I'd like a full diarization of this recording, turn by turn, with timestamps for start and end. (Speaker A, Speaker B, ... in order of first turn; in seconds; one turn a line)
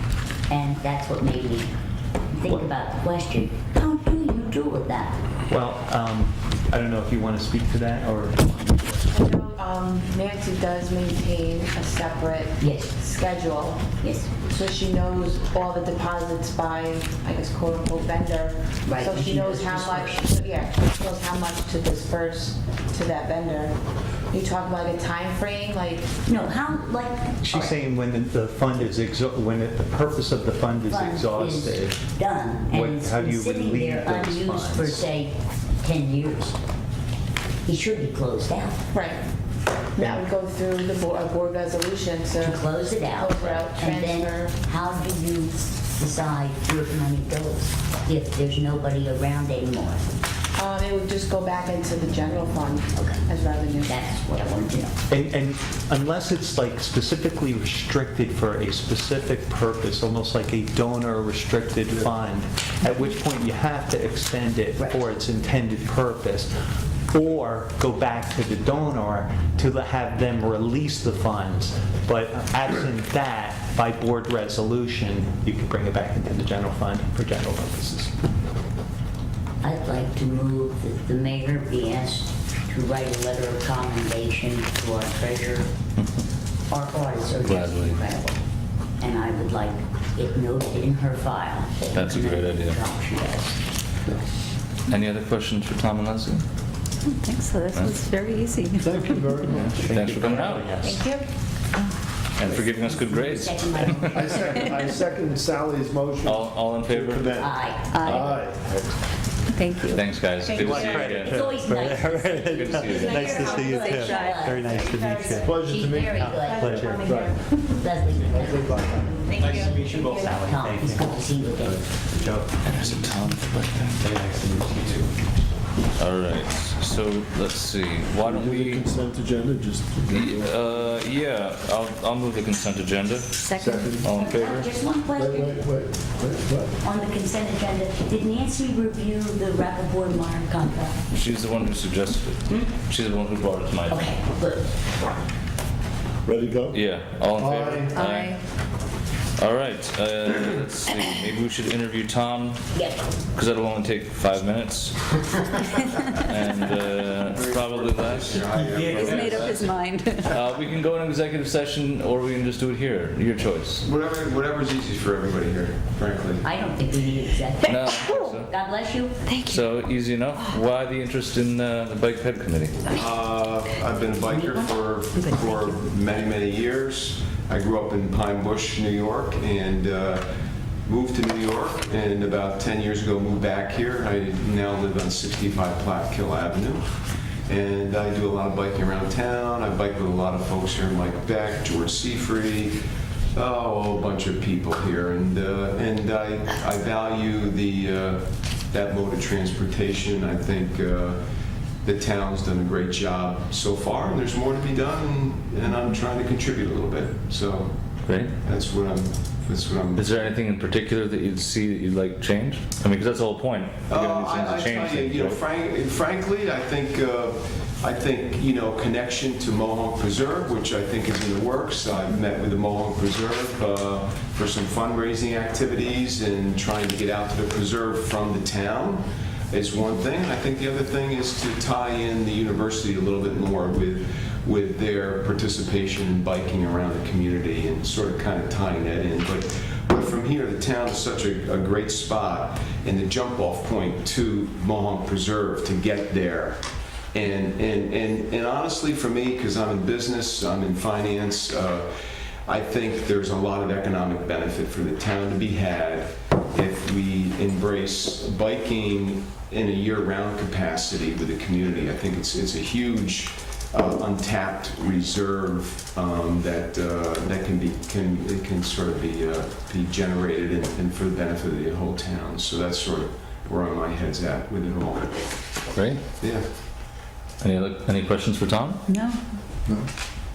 Speaker A: 0.5-1.7
Speaker A: 2.3-5.2
Speaker B: 5.5-9.1
Speaker C: 9.1-13.9
Speaker A: 12.6-12.9
Speaker A: 14.0-14.3
Speaker C: 14.5-23.7
Speaker A: 18.8-20.2
Speaker C: 24.3-26.1
Speaker A: 26.2-27.7
Speaker B: 27.4-32.0
Speaker A: 30.9-36.5
Speaker B: 32.7-35.1
Speaker A: 37.6-38.8
Speaker C: 38.9-39.2
Speaker C: 39.9-44.5
Speaker A: 42.4-50.0
Speaker C: 50.5-54.0
Speaker A: 52.9-53.2
Speaker A: 53.8-54.9
Speaker B: 55.1-66.5
Speaker B: 67.1-78.1
Speaker A: 79.6-85.7
Speaker A: 86.7-88.4
Speaker D: 87.4-88.0
Speaker A: 89.0-93.6
Speaker D: 91.9-92.8
Speaker D: 94.9-96.4
Speaker E: 97.0-99.3
Speaker D: 97.7-98.0
Speaker F: 98.8-100.4
Speaker D: 99.5-100.7
Speaker B: 99.7-101.0
Speaker C: 100.8-101.2
Speaker D: 102.3-104.4
Speaker A: 102.5-104.8
Speaker F: 104.1-108.9
Speaker D: 106.2-107.5
Speaker A: 107.3-108.3
Speaker E: 107.9-108.3
Speaker D: 108.0-108.4
Speaker E: 109.5-110.1
Speaker D: 109.9-111.4
Speaker B: 110.4-115.6
Speaker E: 110.6-111.0
Speaker A: 110.8-114.7
Speaker D: 112.0-113.6
Speaker C: 112.9-117.8
Speaker E: 113.1-114.8
Speaker F: 115.4-117.4
Speaker A: 115.5-116.8
Speaker B: 116.2-117.2
Speaker A: 117.7-121.9
Speaker F: 118.2-119.3
Speaker C: 119.1-120.3
Speaker B: 119.3-123.2
Speaker D: 122.6-124.1
Speaker B: 124.0-125.3
Speaker D: 126.0-128.9
Speaker F: 128.2-130.9
Speaker D: 130.1-134.7
Speaker E: 133.4-133.9
Speaker F: 133.5-134.2
Speaker A: 134.1-135.7
Speaker F: 135.1-136.8
Speaker A: 136.8-141.0
Speaker D: 141.1-144.1
Speaker A: 142.5-142.7
Speaker A: 143.9-144.7
Speaker F: 146.2-146.8
Speaker D: 146.7-148.4
Speaker F: 147.3-147.9
Speaker E: 147.9-148.4
Speaker D: 149.4-152.6
Speaker A: 152.7-153.0
Speaker D: 153.3-155.0
Speaker D: 156.1-159.7
Speaker G: 157.2-159.8
Speaker B: 158.6-159.6
Speaker E: 158.8-160.3
Speaker D: 160.2-163.8
Speaker G: 163.8-166.4
Speaker A: 166.4-169.2
Speaker D: 167.7-168.5
Speaker E: 167.9-168.3
Speaker E: 169.2-169.7
Speaker D: 169.4-172.8
Speaker G: 172.9-180.2
Speaker A: 174.3-175.7
Speaker G: 180.8-186.8
Speaker G: 187.5-192.8
Speaker G: 193.3-201.2
Speaker G: 201.8-207.8
Speaker D: 208.1-208.3
Speaker G: 208.4-210.1
Speaker D: 209.9-215.4
Speaker G: 213.9-251.9
Speaker G: 252.5-275.2
Speaker D: 275.7-276.0
Speaker G: 276.2-276.4
Speaker D: 277.4-278.8
Speaker E: 278.9-279.2